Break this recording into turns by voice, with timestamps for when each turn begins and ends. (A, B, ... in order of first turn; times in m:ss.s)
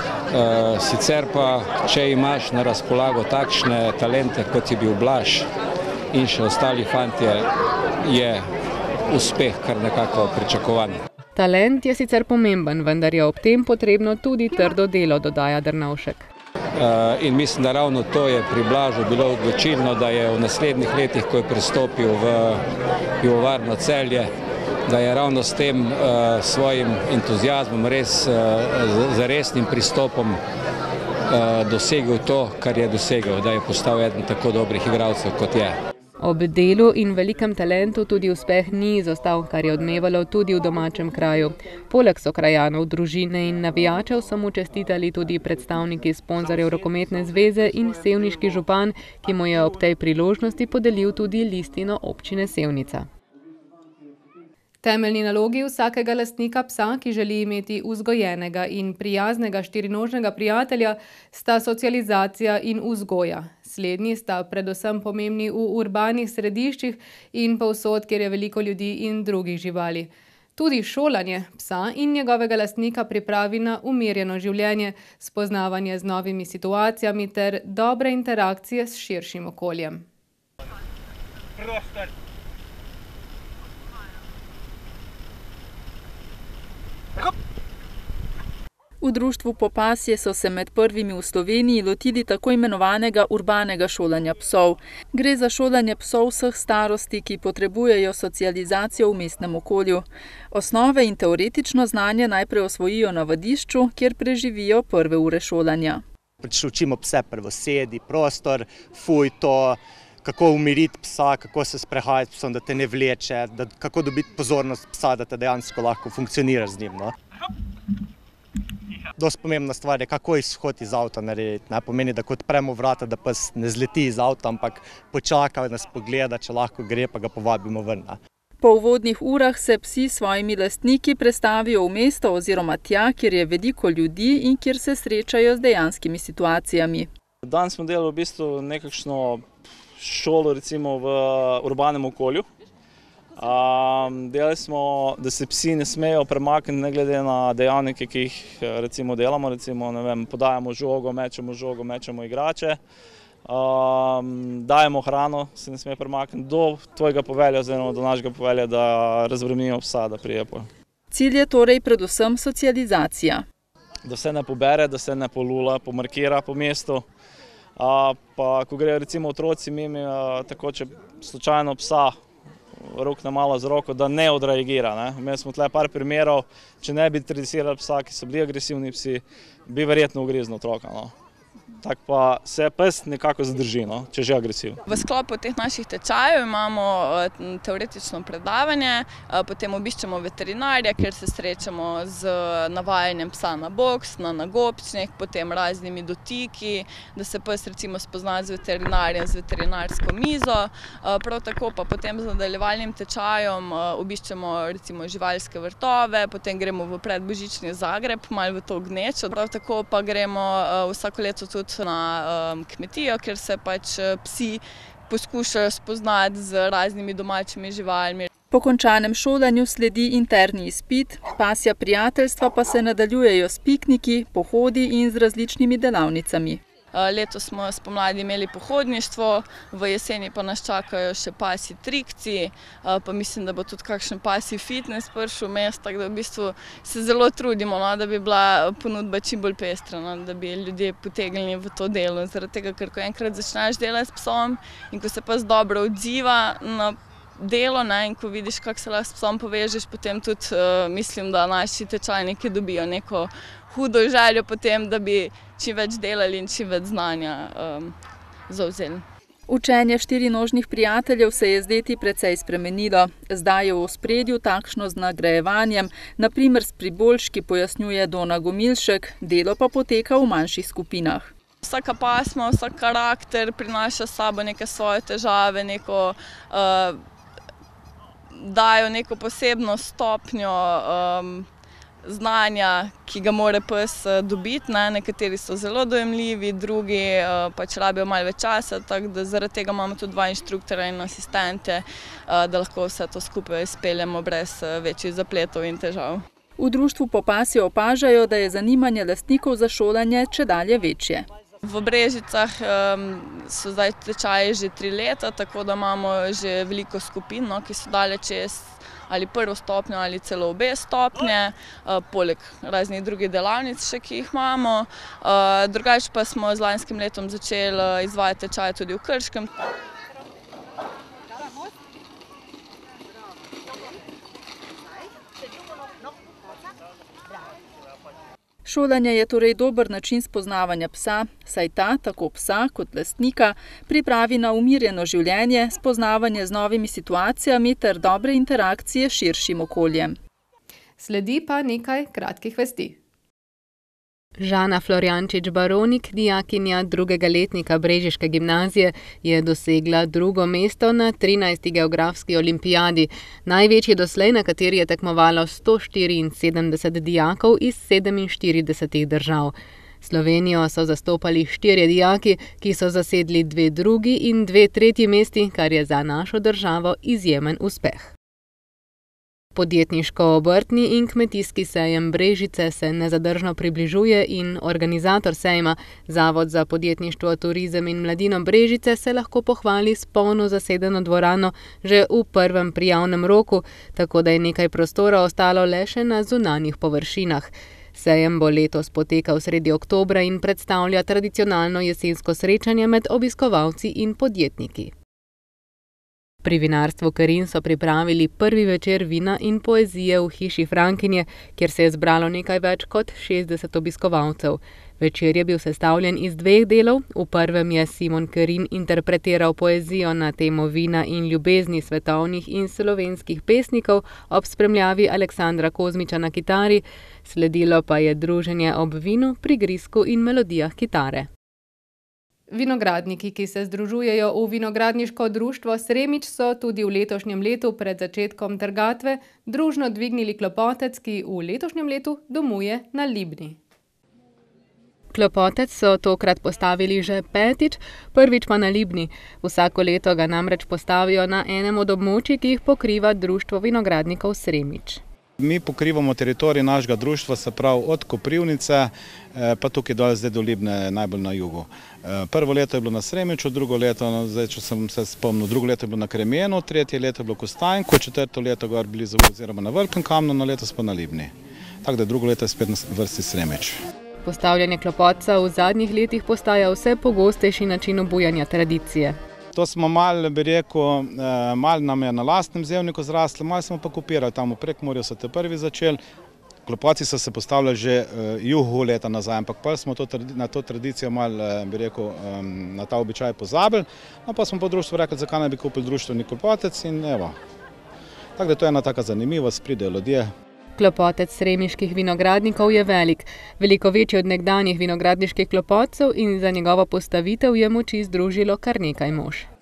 0:00.3-0:05.5 A
0:06.1-0:07.5 A
0:08.0-0:08.4 A
0:09.1-0:11.0 A
0:11.4-0:16.3 B
0:16.8-0:22.6 A
0:23.2-0:24.3 A
0:24.9-0:30.4 A
0:31.3-0:35.8 A
0:36.2-0:53.1 B
0:54.8-1:20.0 B
1:29.0-1:46.0 C
1:46.4-1:57.1 D
1:59.2-2:08.2 D
2:08.6-2:17.1 C
2:17.4-2:19.4 E
2:20.0-2:22.5 E
2:23.4-2:32.8 E
2:33.4-2:40.7 E
2:41.1-2:43.4 C
2:44.0-2:47.0 E
2:47.8-2:52.1 E
2:52.8-3:01.1 E
3:01.8-3:04.8 E
3:04.9-3:38.3 F
3:38.5-3:46.6 C
3:46.9-4:17.9 F
4:18.5-4:19.0 F
4:19.5-4:31.3 C
4:31.6-4:37.0 F
4:38.3-4:41.5 F
4:42.0-4:56.2 F
4:56.6-5:01.3 C
5:01.6-5:19.5 F
5:28.6-5:40.2 C
5:41.0-5:43.0 B
5:44.4-6:08.1 B
6:09.5-6:34.9 B
6:36.4-7:01.3 B
7:02.5-7:13.6 B
7:15.1-7:25.0 B
7:25.4-7:41.3 G
7:41.8-7:43.8 G
7:44.2-7:49.2 B
7:49.5-7:56.0 G
7:56.6-8:07.4 G
8:08.4-8:10.3 G
8:10.8-8:19.5 B